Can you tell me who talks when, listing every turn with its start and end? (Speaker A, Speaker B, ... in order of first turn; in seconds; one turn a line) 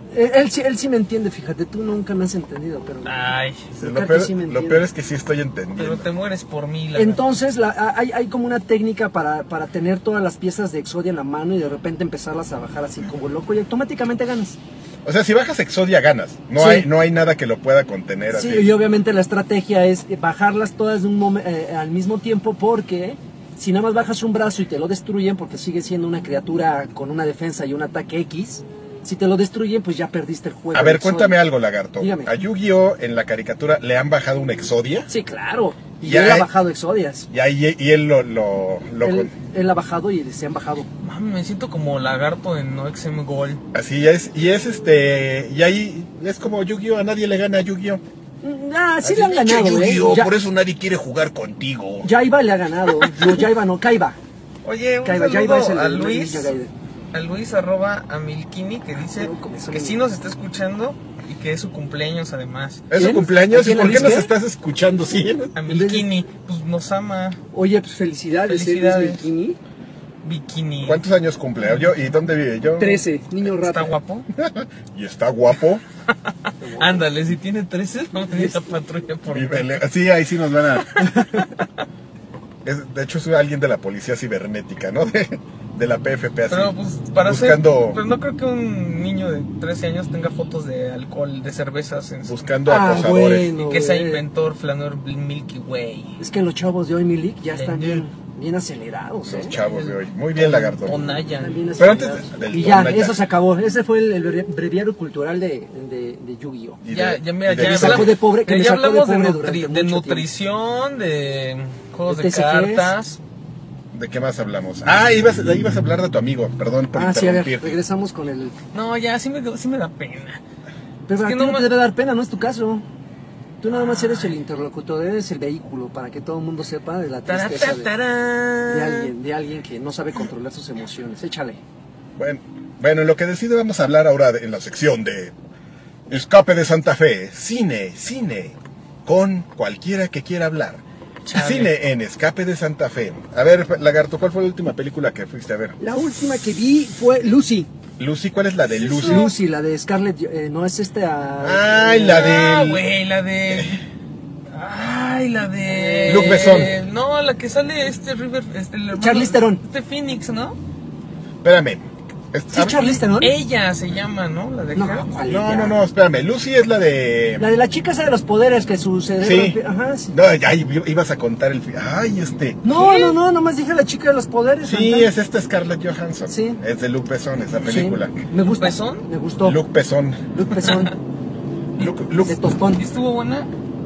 Speaker A: 0.1-3.2
Speaker B: 3.0-3.7
Speaker C: 3.7-6.1
Speaker A: 3.8-4.8
Speaker B: 5.8-7.2
Speaker A: 7.0-14.6
Speaker C: 15.0-18.7
Speaker A: 16.6-16.9
Speaker A: 18.3-31.4
Speaker C: 30.7-35.1
Speaker A: 32.0-32.3
Speaker A: 35.1-37.3
Speaker C: 36.0-36.5
Speaker C: 37.3-39.3
Speaker A: 39.0-40.9
Speaker B: 41.0-43.6
Speaker C: 43.7-48.0
Speaker A: 48.4-50.3
Speaker C: 49.0-52.1
Speaker A: 52.0-54.2
Speaker B: 54.6-56.5
Speaker A: 55.0-56.7
Speaker B: 57.1-62.9
Speaker A: 59.1-60.0
Speaker C: 62.9-65.5
Speaker A: 62.9-64.3
Speaker B: 65.5-67.4
Speaker A: 65.7-66.1
Speaker A: 67.5-69.6
Speaker B: 68.5-69.3
Speaker B: 70.2-71.0
Speaker C: 70.8-73.0
Speaker B: 71.6-71.9
Speaker A: 72.8-74.0
Speaker B: 73.6-74.3
Speaker C: 74.3-75.8
Speaker A: 76.6-77.1
Speaker B: 76.8-79.8
Speaker A: 78.3-78.8
Speaker C: 79.3-81.1
Speaker B: 80.9-81.4
Speaker C: 82.6-88.0
Speaker B: 86.5-92.5
Speaker C: 92.2-93.5
Speaker A: 92.7-94.2
Speaker B: 93.6-96.2
Speaker A: 96.2-99.6
Speaker B: 97.5-98.0
Speaker C: 99.2-101.1
Speaker B: 99.5-102.2
Speaker A: 101.4-106.8
Speaker C: 101.8-103.2
Speaker C: 106.8-108.2
Speaker B: 106.9-113.2
Speaker A: 107.6-110.3
Speaker A: 112.1-112.9
Speaker C: 113.9-117.8
Speaker A: 116.9-118.6
Speaker B: 118.7-120.4
Speaker A: 121.1-122.8
Speaker B: 121.2-121.7
Speaker A: 123.6-127.9
Speaker B: 123.6-124.3
Speaker B: 127.3-129.1
Speaker A: 128.7-131.6
Speaker C: 132.2-135.3
Speaker C: 136.1-140.8
Speaker B: 141.2-141.7
Speaker C: 141.3-145.8
Speaker A: 145.8-147.7
Speaker C: 148.0-149.3
Speaker B: 148.7-149.4
Speaker A: 149.0-152.3
Speaker C: 151.4-152.8
Speaker B: 152.1-153.8
Speaker C: 153.5-153.8
Speaker B: 154.5-160.6
Speaker A: 155.6-156.8
Speaker C: 156.1-156.8
Speaker A: 158.9-159.6
Speaker C: 161.4-163.0
Speaker A: 162.5-163.3
Speaker B: 163.0-165.1
Speaker A: 164.7-165.7
Speaker C: 165.3-167.5
Speaker A: 167.4-170.1
Speaker C: 169.2-169.6
Speaker C: 170.1-172.6
Speaker A: 172.6-175.1
Speaker B: 172.7-173.2
Speaker C: 174.6-178.1
Speaker A: 176.3-176.6
Speaker A: 177.7-179.6
Speaker B: 178.5-179.1
Speaker C: 179.4-180.2
Speaker A: 180.3-180.9
Speaker C: 181.8-182.4
Speaker A: 182.2-182.8
Speaker B: 182.8-183.5